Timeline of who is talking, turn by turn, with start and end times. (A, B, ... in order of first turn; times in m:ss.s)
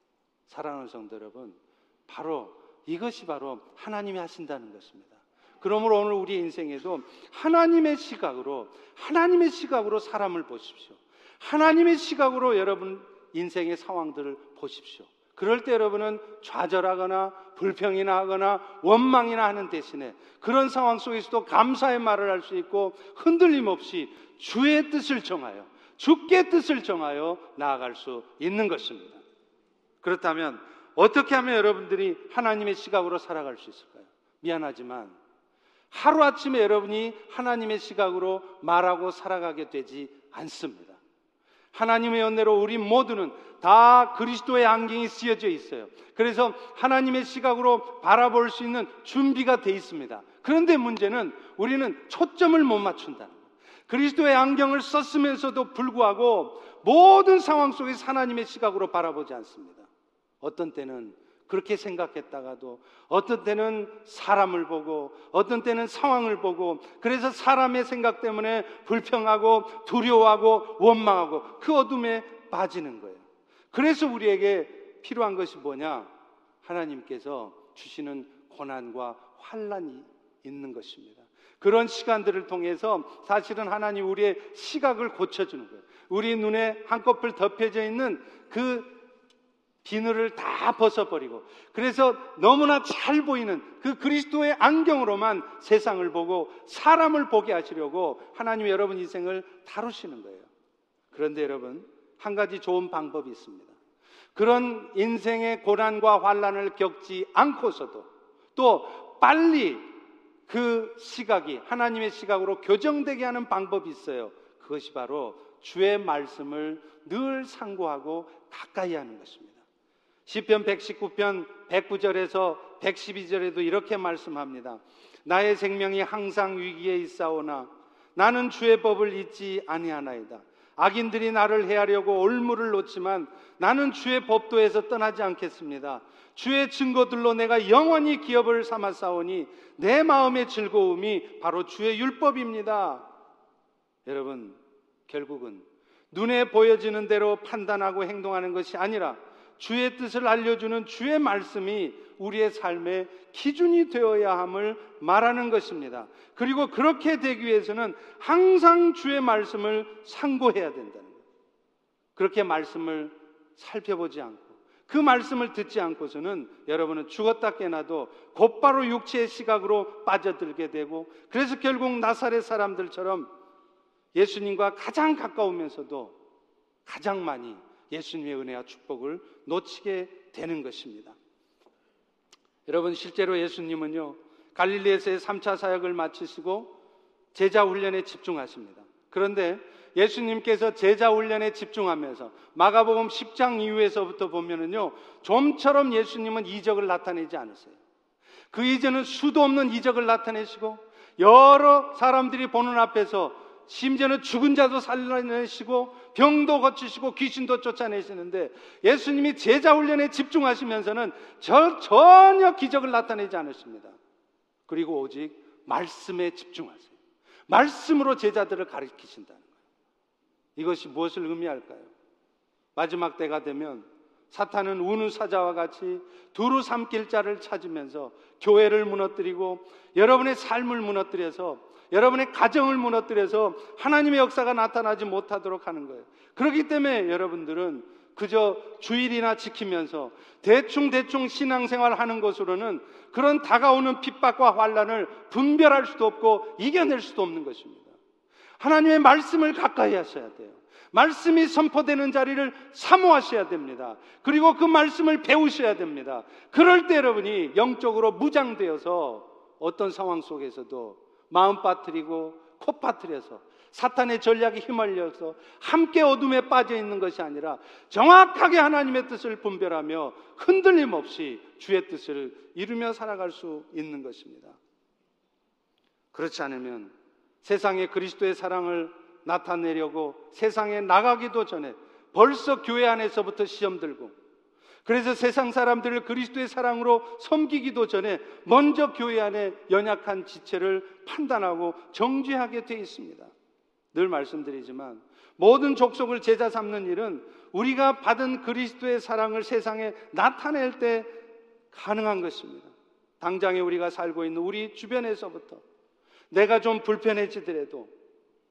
0:00.5-0:29.2 A
0:30.0-0:35.2 A
0:35.9-0:41.0 A
0:41.7-0:59.9 A
1:00.4-1:16.1 A
1:16.6-1:29.0 A
1:29.8-1:40.5 A
1:41.1-1:43.8 A
1:44.4-1:49.9 A
1:50.5-1:59.6 A
2:00.3-2:23.1 A
2:24.1-2:41.2 A
2:42.2-2:53.3 A
2:54.2-2:56.2 A
2:56.9-3:01.2 A
3:02.7-3:06.7 A
3:07.3-3:17.8 A
3:18.5-3:34.0 A
3:34.7-3:37.0 A
3:37.5-3:39.5 A
3:40.6-3:41.9 A
3:42.8-4:07.9 A
4:08.6-4:34.6 A
4:36.1-4:36.9 A
4:37.4-4:44.2 A
4:44.8-4:53.3 A
4:53.9-5:01.1 A
5:01.7-5:05.6 A
5:06.3-5:07.9 A